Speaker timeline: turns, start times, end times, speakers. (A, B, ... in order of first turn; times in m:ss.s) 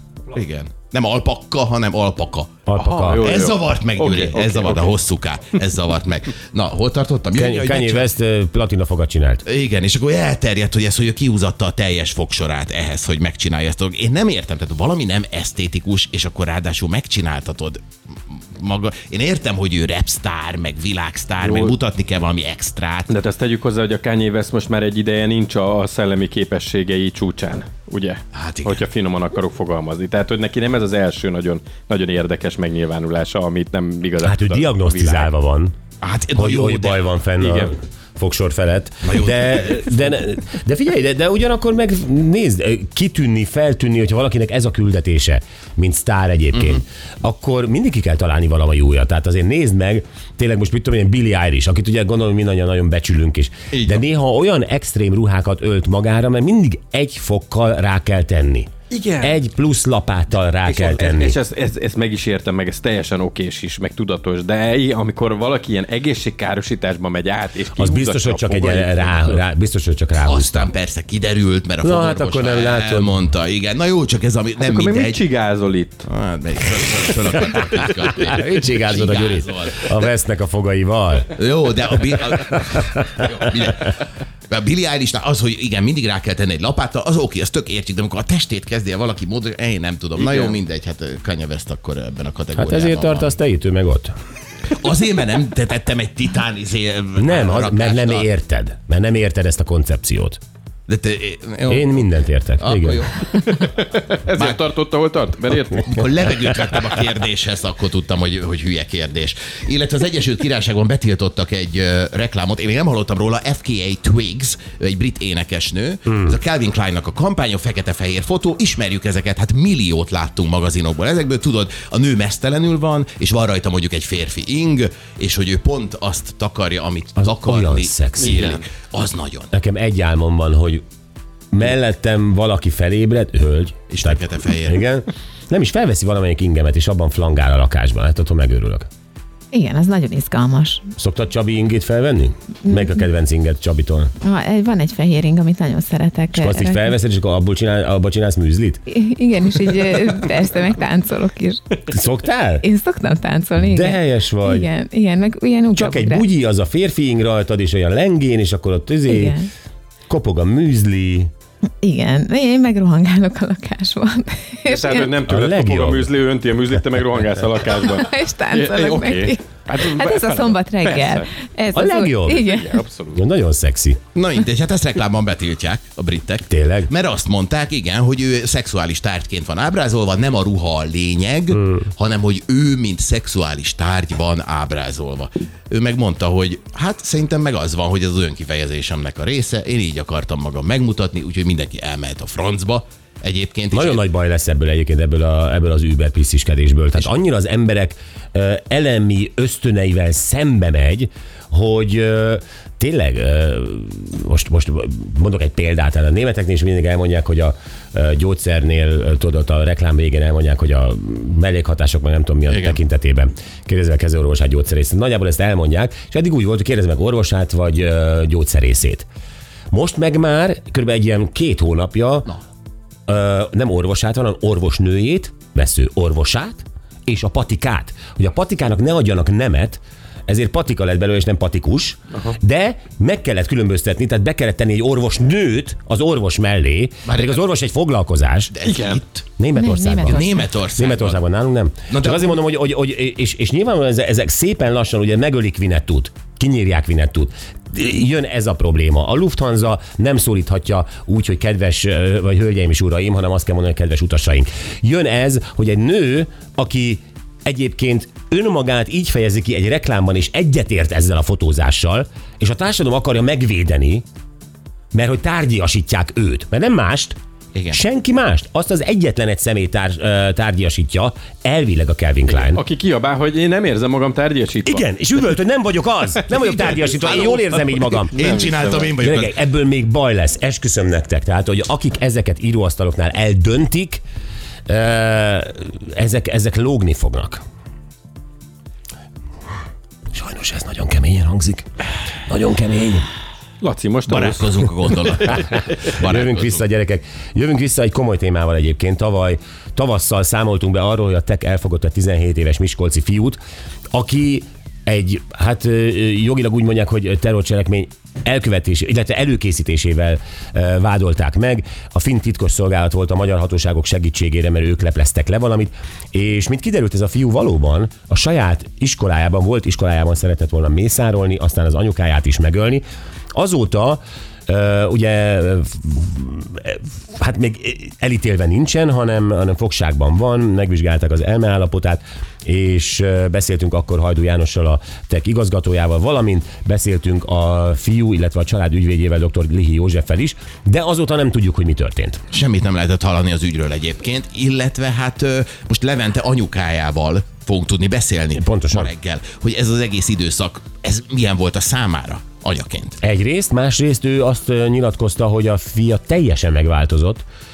0:00.3-0:02.6 A
0:02.7-0:03.2 B
0:02.8-0:05.0 C
0:03.2-0:08.1 A
0:07.3-0:09.4 B
0:09.4-0:23.1 A
0:21.4-0:21.8 C
0:23.1-0:35.3 C
0:28.3-0:28.8 A
0:34.2-0:35.8 B
0:36.0-0:37.1 A
0:36.4-0:58.7 B
0:37.4-0:37.7 C
0:39.1-0:39.6 A
0:46.5-0:46.8 A
0:53.7-0:54.0 A
0:58.9-0:59.4 C
0:59.2-1:01.4 B
1:00.7-1:09.4 C
1:07.8-1:10.7 B
1:10.2-1:15.3 A
1:11.8-1:13.2 B
1:14.6-1:16.1 C
1:16.1-1:19.9 A
1:18.1-1:21.4 B
1:21.4-1:33.4 A
1:22.1-1:23.5 B
1:30.2-1:30.5 C
1:32.6-1:34.2 B
1:34.7-1:38.3 A
1:37.2-1:40.4 B
1:40.9-1:43.5 A
1:41.7-1:43.1 B
1:43.3-1:45.9 C
1:45.6-2:09.5 A
2:07.2-2:08.4 B
2:08.2-2:08.6 C
2:09.5-2:10.8 B
2:11.5-2:18.9 B
2:13.9-2:14.8 A
2:19.5-2:20.9 D
2:21.0-2:24.1 B
2:24.2-2:26.9 D
2:26.3-2:28.8 B
2:28.9-2:31.6 D
2:31.9-2:32.6 B
2:32.6-2:36.2 D
2:33.6-2:34.7 B
2:35.7-2:39.4 B
2:39.1-2:39.5 D
2:40.1-2:41.3 B
2:41.8-2:45.1 D
2:44.7-2:51.3 C
2:45.3-2:46.1 B
2:47.7-2:52.8 D
2:51.8-2:52.4 B
2:52.3-2:53.2 C
2:53.1-2:54.0 B
2:54.2-3:14.0 A
2:56.5-2:56.9 B
3:01.5-3:01.8 B
3:13.7-3:39.1 B
3:32.5-3:32.8 A
3:39.7-3:42.3 B
3:43.1-3:58.5 B
3:57.1-3:57.4 A
3:58.5-3:59.2 A
3:58.6-3:59.0 C
3:59.4-4:24.0 B
3:59.6-4:00.3 D
4:00.0-4:01.2 A
4:01.9-4:02.4 A
4:24.9-4:27.2 B
4:27.5-4:27.8 A
4:27.7-4:32.6 B
4:32.3-4:34.8 C
4:34.6-4:38.2 B
4:36.3-4:39.4 A
4:37.1-4:38.8 C
4:39.0-4:44.0 B
4:44.7-4:47.4 B
4:50.1-4:51.7 B
4:52.3-4:53.1 B
4:53.6-4:55.7 C
4:54.1-4:56.6 A
4:56.0-5:03.4 B
5:03.9-5:22.8 B
5:23.4-5:42.2 B
5:42.3-5:53.0 A
5:48.4-5:48.9 B
5:53.0-5:57.2 B